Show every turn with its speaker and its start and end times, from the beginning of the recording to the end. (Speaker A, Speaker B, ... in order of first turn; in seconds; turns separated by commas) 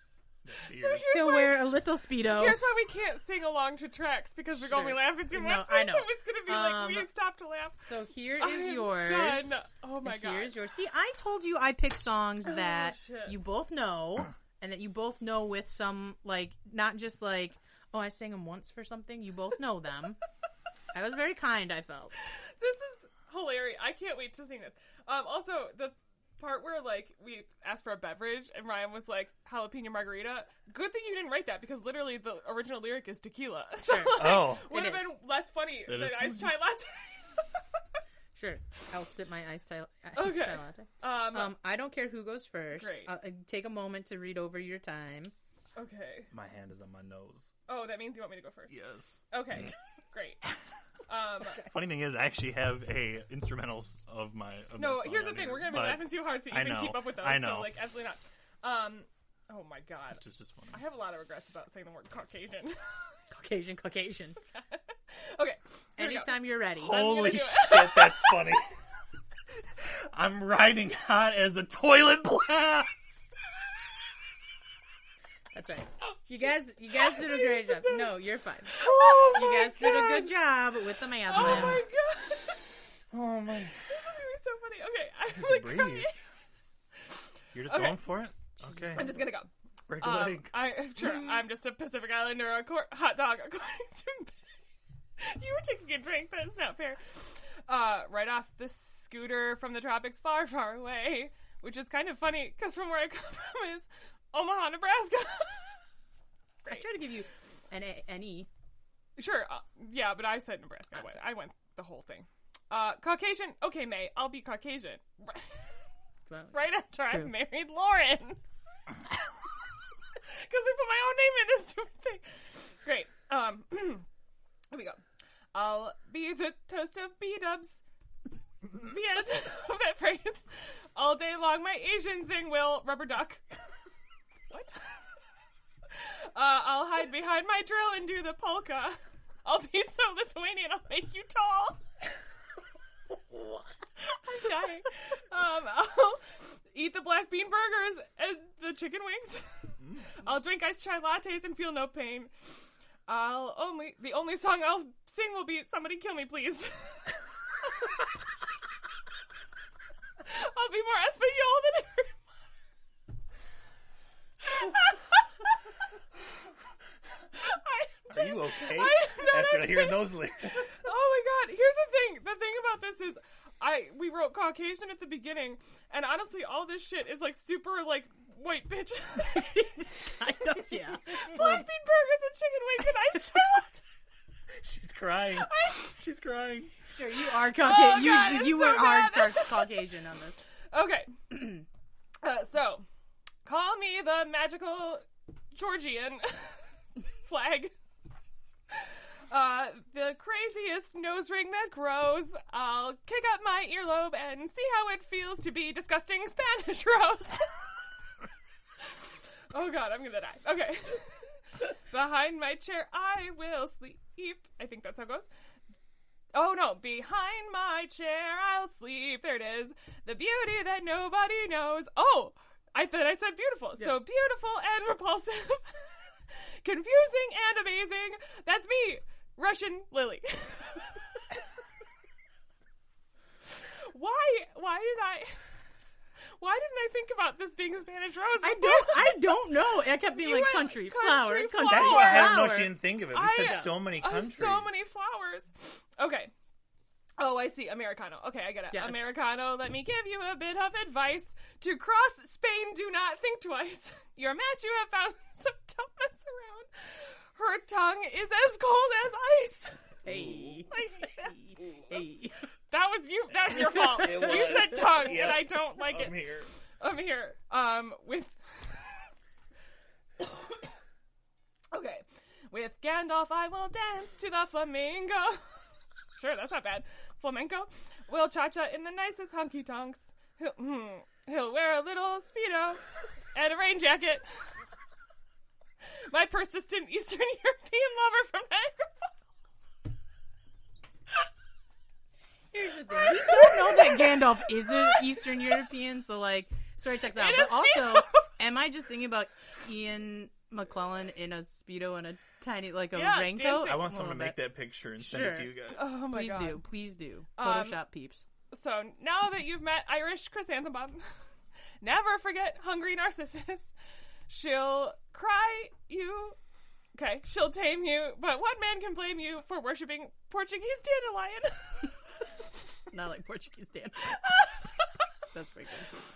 Speaker A: 0.4-1.1, Speaker B: 0.7-1.7, Speaker C: 1.1-2.6, Speaker B: 2.2-7.9, Speaker C: 4.6-7.1, Speaker C: 7.8-9.5, Speaker B: 8.4-10.6, Speaker C: 10.0-20.2, Speaker B: 12.4-13.4, Speaker C: 20.9-22.1, Speaker B: 22.3-37.6, Speaker C: 33.8-35.1, Speaker A: 34.1-34.7, Speaker A: 35.9-36.5, Speaker C: 38.3-45.3, Speaker B: 40.1-41.5, Speaker B: 42.7-43.1, Speaker B: 45.8-46.3, Speaker A: 46.3-47.5, Speaker B: 47.7-48.8, Speaker A: 48.7-49.2, Speaker B: 49.3-50.5, Speaker B: 51.1-51.6, Speaker A: 51.6-57.8, Speaker B: 54.8-62.9, Speaker A: 60.2-60.8, Speaker C: 63.3-64.4, Speaker B: 64.5-68.3, Speaker C: 66.0-67.0, Speaker A: 66.8-68.6, Speaker A: 69.8-73.3, Speaker C: 75.5-81.9, Speaker B: 76.9-78.2, Speaker B: 78.7-80.3, Speaker A: 78.8-79.7, Speaker B: 81.2-82.7, Speaker A: 81.4-81.7, Speaker A: 83.1-83.8, Speaker B: 83.9-86.2, Speaker A: 85.3-86.1, Speaker A: 87.5-89.2, Speaker B: 87.7-88.0, Speaker B: 88.9-89.5, Speaker A: 89.9-90.5, Speaker B: 90.0-94.5, Speaker B: 95.2-105.8, Speaker B: 106.6-106.9, Speaker C: 106.6-108.5, Speaker B: 109.2-115.7, Speaker C: 116.3-117.3, Speaker B: 116.5-118.4, Speaker B: 120.2-124.0, Speaker B: 124.7-125.0, Speaker B: 125.5-127.8, Speaker B: 128.7-133.4, Speaker B: 134.5-134.8, Speaker B: 135.9-141.8, Speaker B: 144.0-149.6, Speaker A: 149.8-150.1, Speaker B: 150.1-152.6, Speaker B: 153.1-157.1, Speaker B: 160.2-162.2, Speaker B: 164.4-165.2, Speaker B: 167.3-179.9, Speaker A: 168.1-170.7, Speaker C: 179.2-181.6, Speaker B: 180.4-183.8, Speaker A: 184.6-186.7, Speaker B: 185.3-185.8, Speaker C: 186.9-190.4, Speaker B: 187.1-189.8, Speaker B: 190.7-191.6, Speaker B: 192.2-192.8, Speaker B: 193.4-196.6, Speaker B: 197.2-197.7, Speaker B: 198.7-207.7, Speaker B: 208.9-215.3, Speaker B: 216.3-231.3, Speaker B: 233.6-235.5, Speaker B: 236.4-239.3, Speaker C: 238.4-242.8, Speaker B: 240.1-242.6, Speaker A: 241.6-244.7, Speaker B: 243.1-246.3, Speaker B: 247.2-259.8, Speaker C: 248.7-249.1, Speaker A: 260.0-260.7, Speaker C: 260.0-260.7, Speaker B: 260.7-261.5, Speaker C: 261.9-262.4, Speaker B: 262.7-266.2, Speaker A: 263.6-266.5, Speaker C: 263.7-264.7, Speaker B: 266.8-269.0, Speaker B: 271.7-275.5, Speaker B: 276.2-282.8, Speaker B: 283.3-284.2, Speaker B: 286.1-289.2, Speaker C: 292.5-304.4, Speaker B: 293.3-294.2, Speaker B: 297.1-298.3, Speaker B: 302.9-303.9, Speaker A: 303.5-305.9, Speaker C: 305.0-308.2, Speaker B: 305.7-306.6, Speaker B: 307.4-307.8, Speaker B: 308.5-311.1, Speaker B: 311.8-313.7, Speaker B: 314.3-316.4, Speaker B: 316.9-321.9, Speaker C: 322.9-324.2, Speaker C: 325.3-325.9